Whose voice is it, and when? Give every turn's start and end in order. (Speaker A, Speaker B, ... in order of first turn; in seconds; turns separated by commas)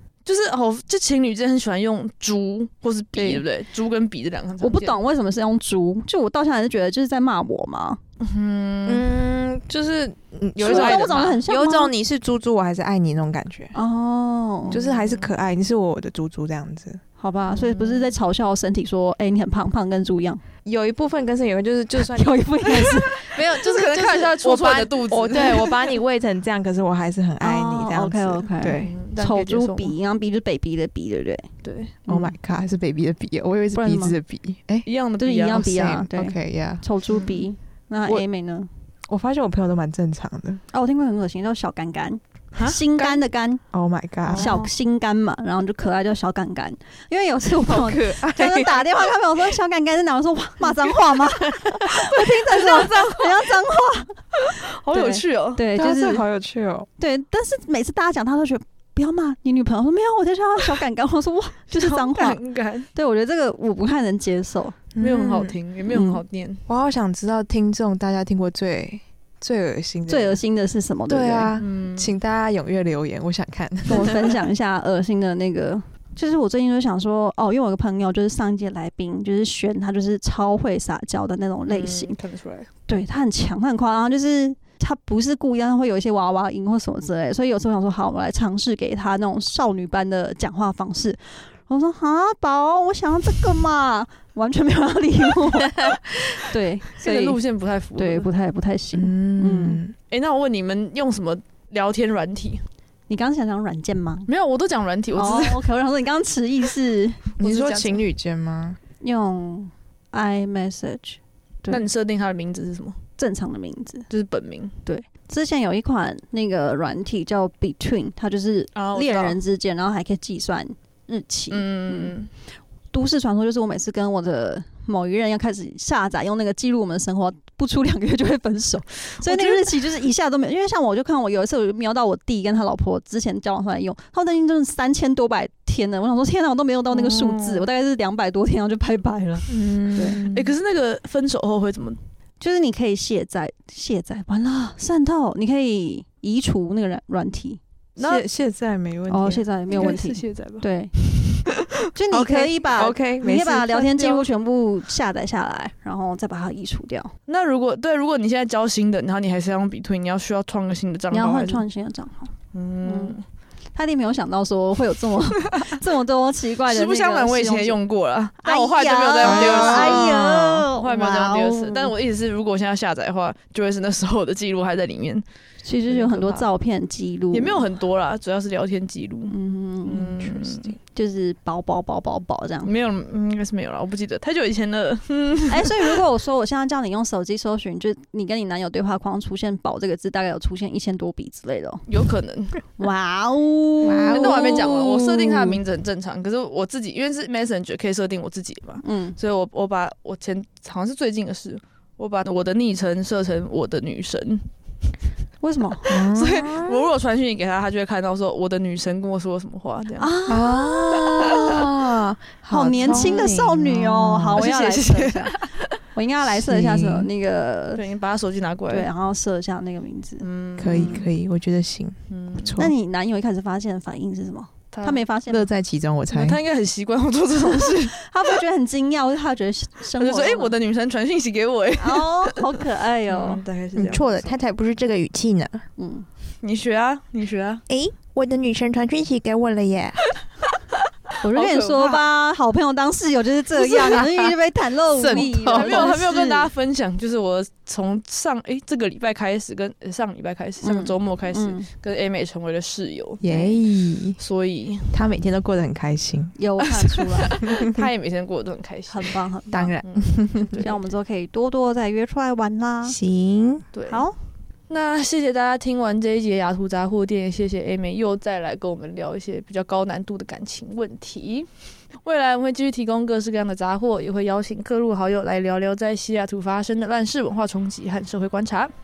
Speaker A: 0.2-5.0, Speaker B: 3.1-3.4, Speaker B: 4.6-8.0, Speaker A: 8.2-9.1, Speaker C: 8.8-13.7, Speaker A: 10.6-11.4, Speaker B: 10.6-11.9, Speaker B: 13.7-14.8, Speaker C: 14.7-17.0, Speaker A: 14.8-15.3, Speaker B: 17.2-20.4, Speaker A: 17.6-18.1, Speaker C: 20.6-29.0, Speaker B: 22.0-23.3, Speaker A: 23.3-26.0, Speaker B: 27.4-31.5, Speaker A: 28.8-29.9, Speaker A: 31.6-31.9, Speaker B: 32.1-32.3, Speaker C: 32.1-34.9, Speaker B: 33.7-34.1, Speaker A: 34.9-35.7, Speaker B: 35.2-38.7, Speaker C: 35.5-36.8, Speaker A: 37.1-37.5, Speaker C: 39.1-40.6, Speaker B: 40.7-43.6, Speaker A: 42.5-43.2, Speaker C: 43.7-44.6, Speaker A: 44.3-44.7, Speaker B: 44.3-56.2, Speaker C: 47.6-49.0, Speaker A: 52.0-53.6, Speaker A: 54.5-55.7, Speaker C: 55.7-56.9, Speaker B: 57.0-62.4, Speaker A: 61.7-62.9, Speaker B: 62.9-64.8, Speaker C: 65.0-65.6, Speaker A: 65.0-66.6, Speaker B: 65.9-66.2, Speaker C: 66.7-70.4, Speaker B: 70.1-71.5, Speaker C: 71.1-74.3, Speaker A: 71.6-72.2, Speaker B: 73.9-82.2, Speaker A: 81.7-82.7, Speaker B: 82.9-97.4, Speaker A: 97.0-98.3, Speaker B: 98.0-99.8, Speaker C: 98.9-100.0, Speaker A: 100.1-102.6, Speaker B: 103.1-104.3, Speaker A: 104.3-105.7, Speaker B: 105.1-107.2, Speaker A: 107.4-108.0, Speaker C: 107.4-108.8, Speaker B: 109.0-111.8, Speaker A: 111.7-113.0, Speaker B: 113.2-114.1, Speaker A: 114.1-114.7, Speaker B: 114.8-122.1, Speaker A: 118.7-119.4, Speaker A: 121.5-122.3, Speaker B: 122.9-140.2, Speaker A: 129.3-129.6, Speaker A: 136.9-137.7, Speaker C: 139.5-140.5, Speaker A: 139.8-142.0, Speaker B: 142.4-147.6, Speaker A: 148.0-148.2, Speaker C: 148.0-150.0, Speaker B: 149.1-151.0, Speaker A: 149.7-150.6, Speaker B: 151.9-157.1, Speaker C: 152.1-154.1, Speaker A: 157.3-161.6, Speaker B: 161.1-163.2, Speaker A: 162.5-163.2, Speaker B: 163.7-167.8, Speaker A: 166.7-175.2, Speaker B: 168.4-171.9, Speaker C: 169.2-170.3, Speaker B: 175.6-177.7, Speaker A: 175.9-176.5, Speaker A: 177.3-180.7, Speaker B: 179.3-180.2, Speaker C: 180.2-180.8, Speaker B: 180.9-182.7, Speaker A: 182.6-186.0, Speaker B: 185.5-191.8, Speaker A: 191.9-192.6, Speaker B: 192.8-194.9, Speaker C: 193.8-195.6, Speaker A: 193.9-204.5, Speaker B: 198.8-199.2, Speaker B: 205.4-206.0, Speaker C: 205.8-206.9, Speaker A: 205.8-210.1, Speaker B: 210.0-211.6, Speaker C: 210.3-214.4, Speaker A: 211.2-211.6, Speaker B: 212.5-215.3, Speaker A: 212.8-213.3, Speaker A: 214.3-215.8, Speaker B: 215.9-217.8, Speaker C: 216.2-217.1, Speaker A: 217.7-218.9, Speaker B: 218.7-220.3, Speaker A: 220.2-221.1, Speaker C: 220.6-222.7, Speaker A: 222.1-222.6, Speaker B: 222.6-225.4, Speaker A: 224.7-225.1, Speaker C: 225.3-226.4, Speaker A: 226.1-228.0, Speaker B: 227.4-230.5, Speaker A: 230.0-234.3, Speaker B: 231.8-233.4, Speaker C: 233.8-235.6, Speaker B: 235.8-236.1, Speaker A: 236.4-237.6, Speaker C: 237.7-240.0, Speaker A: 240.7-242.1, Speaker B: 241.2-246.5, Speaker C: 243.6-244.3, Speaker C: 244.9-246.1, Speaker A: 245.5-253.2, Speaker B: 250.6-251.7, Speaker C: 253.2-254.2, Speaker B: 253.3-253.5, Speaker A: 254.2-254.9, Speaker C: 254.9-256.3, Speaker B: 256.4-257.3, Speaker A: 256.6-259.2, Speaker C: 257.5-257.8, Speaker B: 258.9-259.8, Speaker C: 259.5-260.6, Speaker A: 259.8-260.8, Speaker B: 260.6-263.0, Speaker C: 262.9-263.7, Speaker A: 263.7-264.1, Speaker B: 263.9-264.2, Speaker A: 264.7-271.5, Speaker A: 272.0-278.7